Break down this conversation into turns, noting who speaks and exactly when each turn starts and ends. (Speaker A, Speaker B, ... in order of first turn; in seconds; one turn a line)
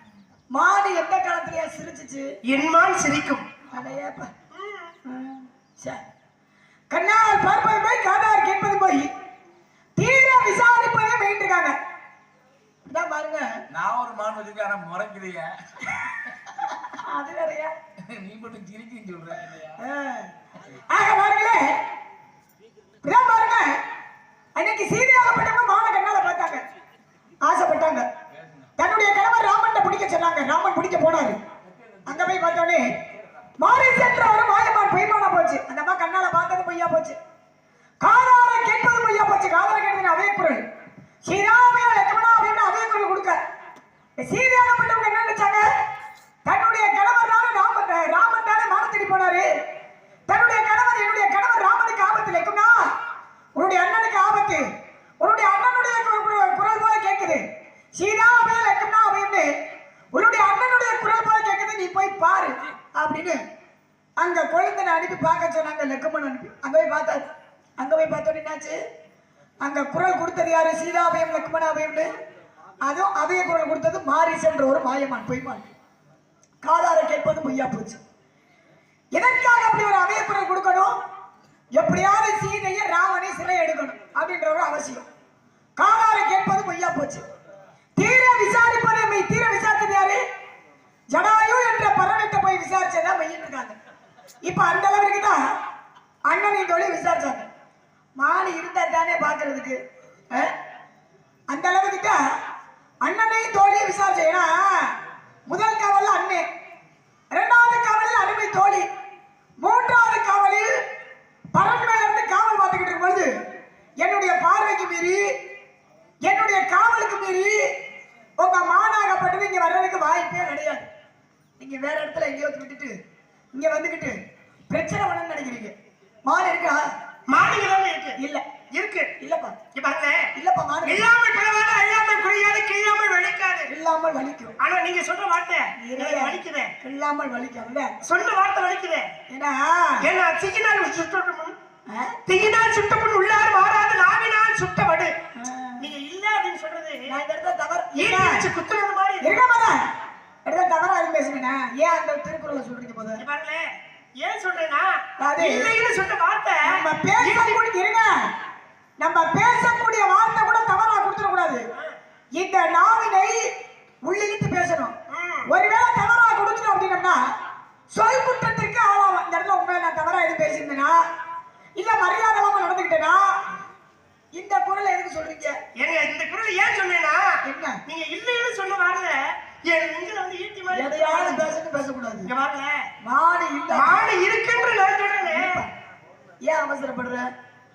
Speaker A: 0.5-2.4
Speaker B: 2.5-3.5
Speaker A: 3.7-4.3
Speaker B: 4.5-4.9
Speaker A: 5.0-6.0
Speaker A: 6.9-9.1
Speaker A: 10.0-11.8
Speaker A: 12.9-13.6
Speaker C: 13.7-16.2
Speaker A: 16.6-17.7
Speaker C: 18.0-19.8
Speaker A: 19.8-20.3
Speaker A: 20.9-21.8
Speaker A: 23.0-23.8
Speaker A: 24.6-26.6
Speaker A: 27.4-28.1
Speaker C: 28.3-28.7
Speaker A: 28.8-31.4
Speaker C: 31.6-32.6
Speaker A: 32.1-32.9
Speaker A: 33.6-37.2
Speaker A: 38.0-40.6
Speaker A: 41.2-43.4
Speaker A: 44.2-45.7
Speaker A: 46.5-49.5
Speaker A: 50.3-52.9
Speaker A: 53.6-54.7
Speaker A: 55.2-57.4
Speaker A: 58.0-59.6
Speaker A: 60.1-63.4
Speaker A: 64.2-68.8
Speaker A: 69.6-72.1
Speaker A: 72.8-75.7
Speaker A: 76.6-78.0
Speaker A: 79.1-81.0
Speaker A: 81.8-85.1
Speaker A: 85.8-87.2
Speaker A: 88.0-90.2
Speaker A: 91.1-93.8
Speaker A: 94.4-95.5
Speaker A: 96.3-97.5
Speaker A: 98.2-99.8
Speaker A: 101.5-102.2
Speaker A: 103.0-104.9
Speaker A: 105.5-106.5
Speaker A: 107.3-108.9
Speaker A: 109.6-110.8
Speaker A: 111.5-113.3
Speaker A: 114.0-115.3
Speaker A: 116.2-117.7
Speaker A: 118.4-120.9
Speaker A: 121.6-123.0
Speaker A: 123.5-124.2
Speaker A: 124.7-125.8
Speaker A: 126.3-126.8
Speaker B: 127.3-128.2
Speaker A: 128.2-128.4
Speaker B: 128.7-129.1
Speaker A: 129.2-129.6
Speaker B: 129.7-130.3
Speaker A: 130.3-131.1
Speaker B: 130.8-133.7
Speaker A: 133.7-134.6
Speaker B: 134.6-136.7
Speaker A: 135.8-137.9
Speaker B: 138.0-139.1
Speaker A: 139.3-140.1
Speaker B: 140.0-141.6
Speaker A: 141.9-142.2
Speaker B: 142.3-145.2
Speaker A: 145.4-145.9
Speaker B: 145.8-147.1
Speaker A: 147.1-148.5
Speaker B: 148.0-149.3
Speaker A: 149.2-149.9
Speaker A: 150.5-153.2
Speaker B: 153.2-153.7
Speaker B: 154.2-157.6
Speaker A: 155.2-155.7
Speaker A: 156.6-158.3
Speaker A: 159.0-161.7
Speaker A: 162.4-163.5
Speaker A: 164.1-164.9
Speaker B: 165.1-165.5
Speaker A: 165.5-167.2
Speaker A: 167.9-171.0
Speaker A: 171.8-173.4
Speaker A: 174.3-175.6
Speaker B: 175.8-181.5
Speaker A: 177.4-177.8
Speaker A: 180.7-182.3
Speaker B: 182.3-182.9
Speaker A: 183.0-184.1
Speaker B: 183.7-185.6
Speaker A: 185.3-185.7
Speaker A: 186.4-187.3